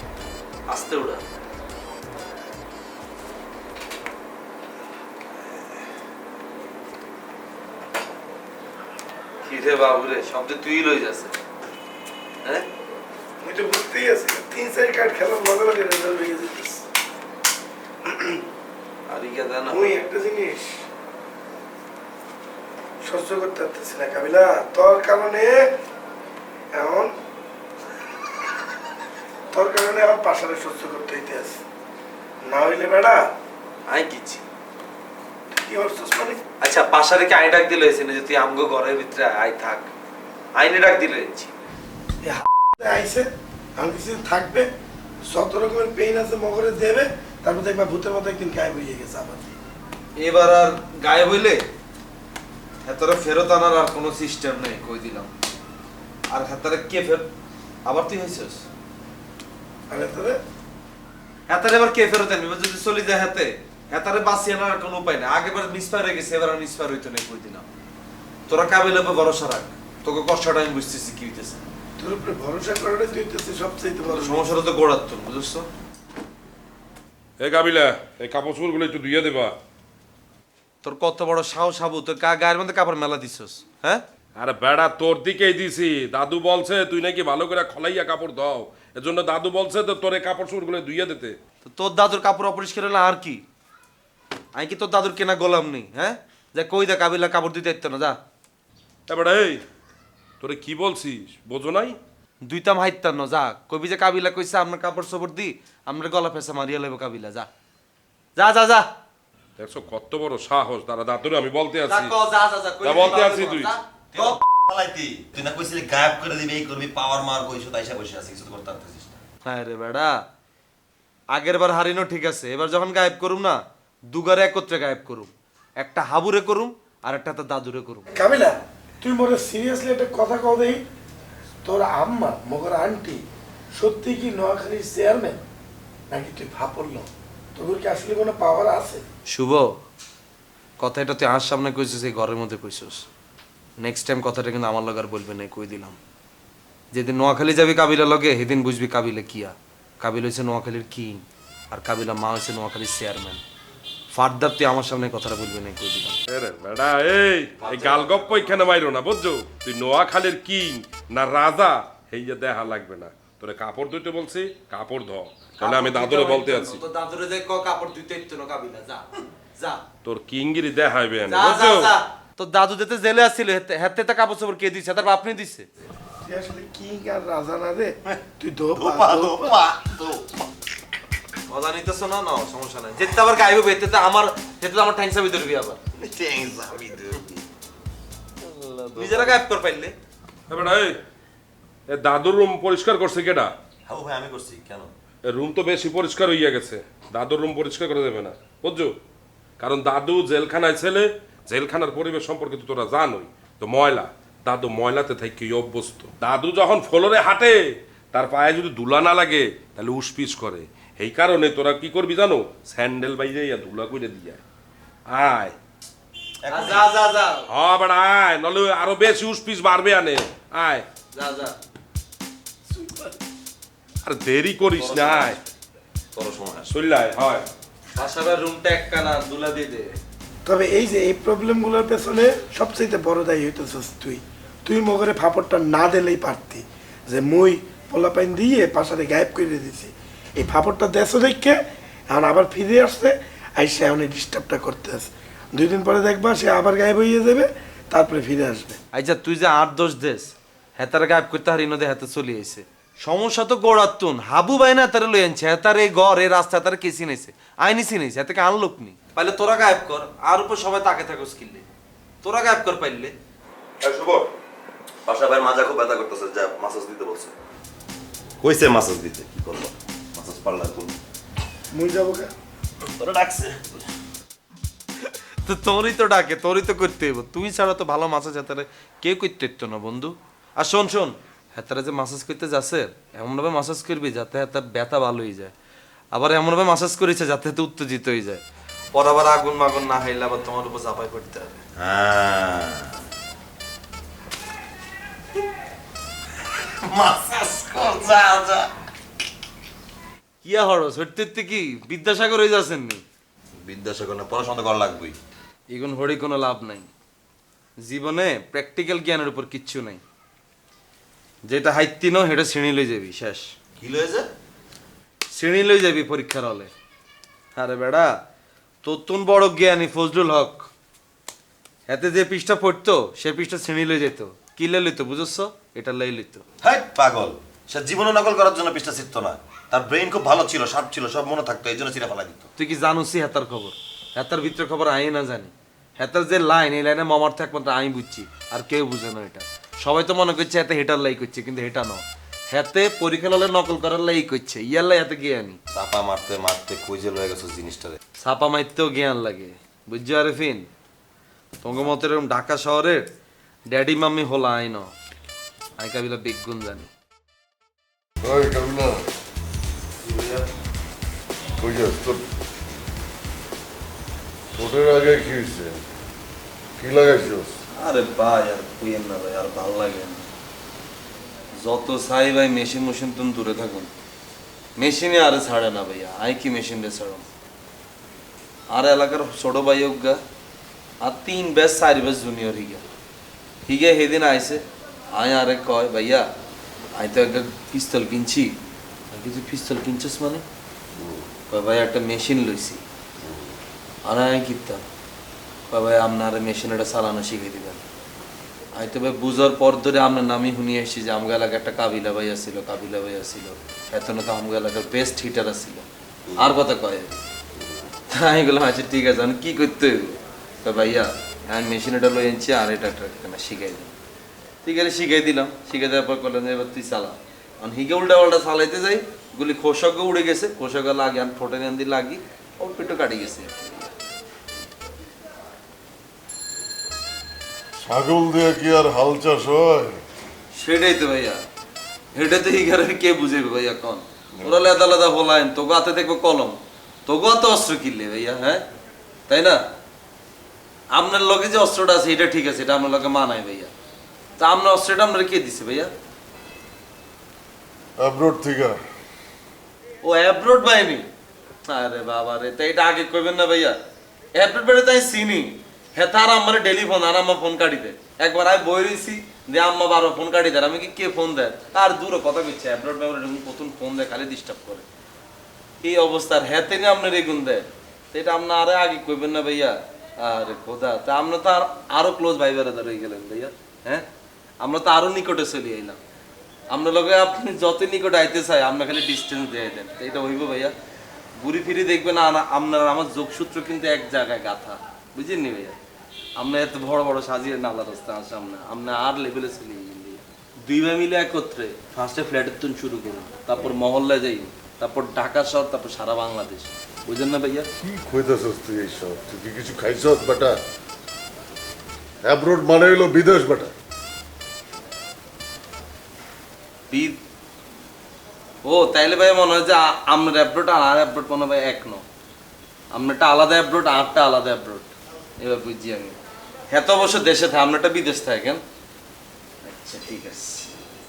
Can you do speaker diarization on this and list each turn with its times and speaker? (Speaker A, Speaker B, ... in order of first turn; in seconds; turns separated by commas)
Speaker A: 0.7-1.2, Speaker A: 9.4-11.4, Speaker B: 13.4-16.9, Speaker B: 18.1-18.4, Speaker A: 19.1-19.9, Speaker B: 19.7-20.9, Speaker B: 23.0-25.7, Speaker B: 26.7-27.1, Speaker B: 29.5-31.6, Speaker B: 32.4-33.2, Speaker A: 33.9-34.4, Speaker B: 35.5-36.4, Speaker A: 36.6-39.9, Speaker A: 40.5-41.5, Speaker B: 42.2-44.7, Speaker B: 45.2-49.5, Speaker A: 50.2-51.6, Speaker A: 52.8-55.3, Speaker A: 56.3-57.3, Speaker A: 57.9-58.7, Speaker B: 59.9-60.4, Speaker A: 61.5-67.7, Speaker A: 68.5-71.6, Speaker B: 72.0-74.5, Speaker A: 74.1-75.7, Speaker C: 77.4-79.5, Speaker A: 80.8-84.0, Speaker C: 84.4-91.4, Speaker A: 91.6-93.4, Speaker A: 94.5-98.2, Speaker C: 99.1-99.6, Speaker C: 100.4-102.0, Speaker A: 102.4-107.5, Speaker A: 108.4-108.9, Speaker C: 109.6-112.1, Speaker A: 111.9-114.4, Speaker C: 112.8-113.7, Speaker D: 114.1-119.2, Speaker A: 119.4-120.2, Speaker A: 121.3-128.1, Speaker B: 128.1-130.8, Speaker B: 131.6-133.2, Speaker B: 133.8-135.4, Speaker B: 136.1-139.1, Speaker A: 139.3-139.8, Speaker A: 140.8-143.1, Speaker A: 143.8-146.0, Speaker A: 146.9-153.4, Speaker A: 154.1-156.2, Speaker C: 156.3-166.8, Speaker A: 157.6-158.7, Speaker A: 165.6-169.8, Speaker C: 170.0-171.9, Speaker A: 171.3-175.7, Speaker B: 176.2-179.4, Speaker D: 178.8-180.4, Speaker A: 181.5-185.8, Speaker D: 185.9-187.4, Speaker D: 188.8-189.3, Speaker A: 188.9-189.9, Speaker C: 190.5-191.0, Speaker C: 191.9-193.5, Speaker D: 193.9-194.9, Speaker C: 195.2-198.9, Speaker C: 199.6-214.4, Speaker C: 215.1-215.6, Speaker D: 216.4-216.9, Speaker A: 216.5-217.5, Speaker C: 217.5-220.9, Speaker A: 221.1-221.6, Speaker B: 222.7-223.2, Speaker C: 224.0-225.4, Speaker A: 224.8-225.4, Speaker D: 224.9-225.3, Speaker D: 226.1-226.7, Speaker C: 226.7-227.5, Speaker A: 227.9-230.0, Speaker B: 230.4-248.8, Speaker A: 248.9-261.6, Speaker A: 262.2-263.1, Speaker D: 263.8-264.3, Speaker D: 265.1-267.3, Speaker D: 268.4-271.0, Speaker B: 271.7-272.3, Speaker D: 273.0-273.7, Speaker A: 275.4-285.5, Speaker A: 286.1-291.6, Speaker D: 291.8-293.0, Speaker D: 296.5-298.7, Speaker A: 300.4-303.0, Speaker D: 303.6-305.2, Speaker A: 305.7-306.9, Speaker A: 307.8-310.0, Speaker A: 311.5-313.5, Speaker D: 313.8-314.3, Speaker A: 315.3-316.7, Speaker A: 317.6-318.1, Speaker A: 318.8-320.7, Speaker A: 321.9-326.5, Speaker D: 326.6-332.5, Speaker A: 332.6-345.6, Speaker D: 345.7-348.0, Speaker A: 348.2-350.7, Speaker A: 351.6-353.1, Speaker A: 353.7-354.9, Speaker A: 355.8-356.9, Speaker E: 358.2-359.1, Speaker A: 360.0-360.5, Speaker E: 361.6-362.3, Speaker E: 364.6-365.8, Speaker E: 366.8-367.5, Speaker A: 367.8-370.3, Speaker A: 371.6-373.9, Speaker A: 374.8-377.2, Speaker A: 378.7-380.2, Speaker A: 381.0-382.8, Speaker A: 383.6-386.3, Speaker A: 387.0-388.5, Speaker A: 389.1-390.4, Speaker E: 391.0-391.3, Speaker A: 391.5-392.8, Speaker E: 393.2-393.6, Speaker A: 394.1-394.8, Speaker A: 395.7-397.8, Speaker A: 398.8-407.2, Speaker A: 408.1-413.9, Speaker A: 414.6-423.9, Speaker E: 427.8-430.0, Speaker A: 430.5-431.4, Speaker A: 432.1-438.6, Speaker A: 439.3-439.6, Speaker A: 440.9-443.7, Speaker A: 444.4-445.9, Speaker E: 448.0-448.8, Speaker A: 450.0-451.1, Speaker A: 451.7-453.8, Speaker A: 454.3-464.9, Speaker A: 465.8-474.1, Speaker A: 474.6-476.0, Speaker A: 476.7-480.7, Speaker A: 481.4-485.8, Speaker A: 486.4-497.7, Speaker E: 497.8-500.6, Speaker E: 502.2-503.7, Speaker A: 506.9-507.2, Speaker A: 508.6-512.0, Speaker A: 512.9-516.2, Speaker A: 516.7-518.6, Speaker A: 519.6-520.7